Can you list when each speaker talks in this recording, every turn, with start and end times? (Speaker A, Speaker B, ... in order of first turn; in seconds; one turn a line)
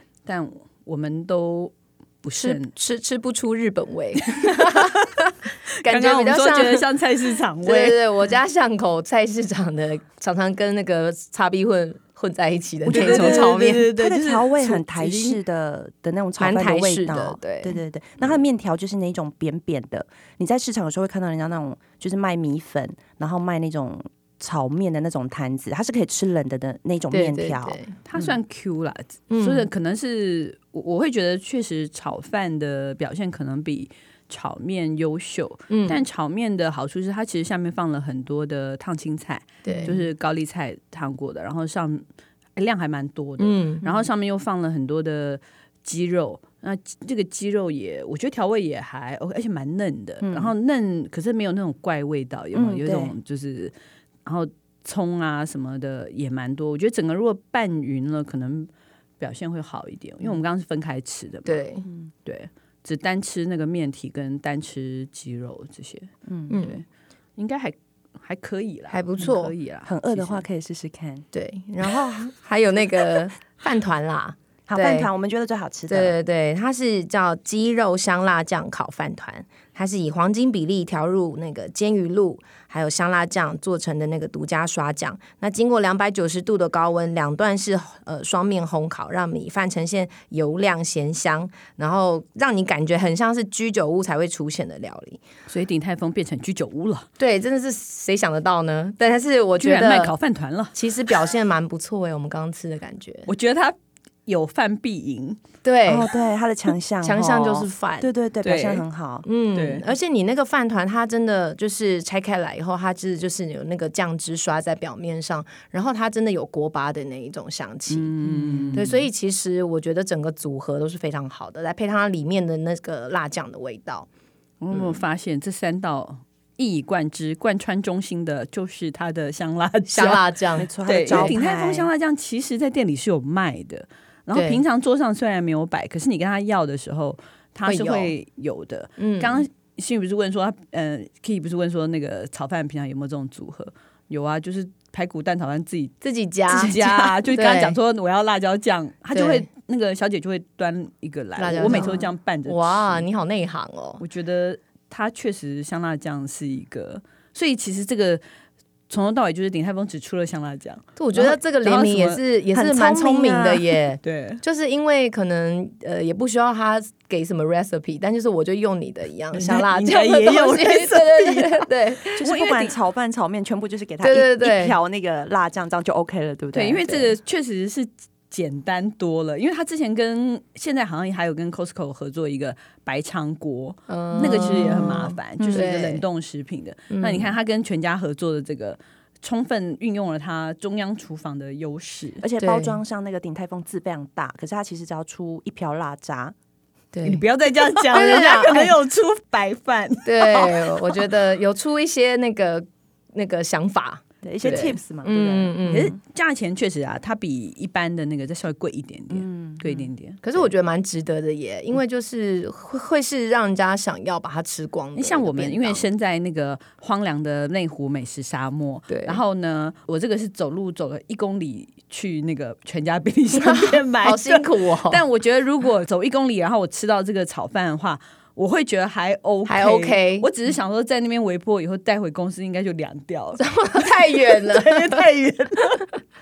Speaker A: 0.2-2.7
Speaker B: 2.4-6.9
Speaker A: 4.4-5.0
Speaker A: 5.9-8.0
Speaker B: 7.6-13.9
Speaker A: 12.9-15.4
Speaker C: 12.9-28.3
Speaker B: 16.4-17.8
Speaker B: 27.1-27.9
Speaker A: 28.0-42.0
Speaker B: 29.3-29.7
Speaker B: 35.7-36.0
Speaker B: 39.6-40.0
Speaker A: 42.5-53.7
Speaker B: 43.4-44.0
Speaker C: 50.2-50.5
Speaker C: 52.5-53.1
Speaker A: 54.2-58.7
Speaker A: 59.2-61.6
Speaker B: 61.5-61.8
Speaker A: 62.2-66.7
Speaker B: 66.5-66.8
Speaker A: 67.4-70.4
Speaker B: 68.9-69.5
Speaker C: 69.8-71.2
Speaker B: 71.3-75.1
Speaker C: 74.7-76.1
Speaker B: 75.9-95.2
Speaker A: 95.5-97.1
Speaker B: 97.2-100.1
Speaker A: 99.6-100.7
Speaker B: 100.7-103.3
Speaker A: 103.3-103.7
Speaker A: 104.2-105.4
Speaker B: 105.6-106.1
Speaker C: 105.8-109.2
Speaker B: 107.0-108.1
Speaker A: 108.4-108.8
Speaker B: 109.2-124.1
Speaker A: 109.5-109.8
Speaker A: 117.9-119.0
Speaker A: 124.6-130.3
Speaker B: 124.7-125.0
Speaker B: 129.9-131.3
Speaker C: 130.6-131.9
Speaker A: 130.8-145.9
Speaker B: 134.3-134.6
Speaker B: 137.7-138.1
Speaker B: 139.0-139.4
Speaker B: 146.0-147.8
Speaker A: 146.5-153.0
Speaker B: 149.1-149.4
Speaker B: 151.4-154.0
Speaker A: 154.0-158.2
Speaker A: 158.9-162.2
Speaker B: 161.0-172.2
Speaker C: 162.5-163.7
Speaker A: 164.0-164.4
Speaker A: 169.3-171.7
Speaker A: 172.2-172.7
Speaker C: 172.2-177.1
Speaker B: 174.0-174.7
Speaker A: 176.5-192.2
Speaker B: 183.9-186.0
Speaker C: 185.4-185.7
Speaker B: 186.9-187.3
Speaker C: 192.2-196.3
Speaker B: 192.4-192.8
Speaker B: 196.9-197.2
Speaker A: 197.0-201.0
Speaker B: 197.9-198.7
Speaker B: 200.0-205.9
Speaker C: 204.2-205.8
Speaker A: 205.7-210.4
Speaker C: 209.1-209.8
Speaker B: 210.2-215.8
Speaker A: 214.9-235.9
Speaker B: 218.9-219.2
Speaker B: 223.3-225.0
Speaker B: 229.4-230.3
Speaker B: 233.4-235.0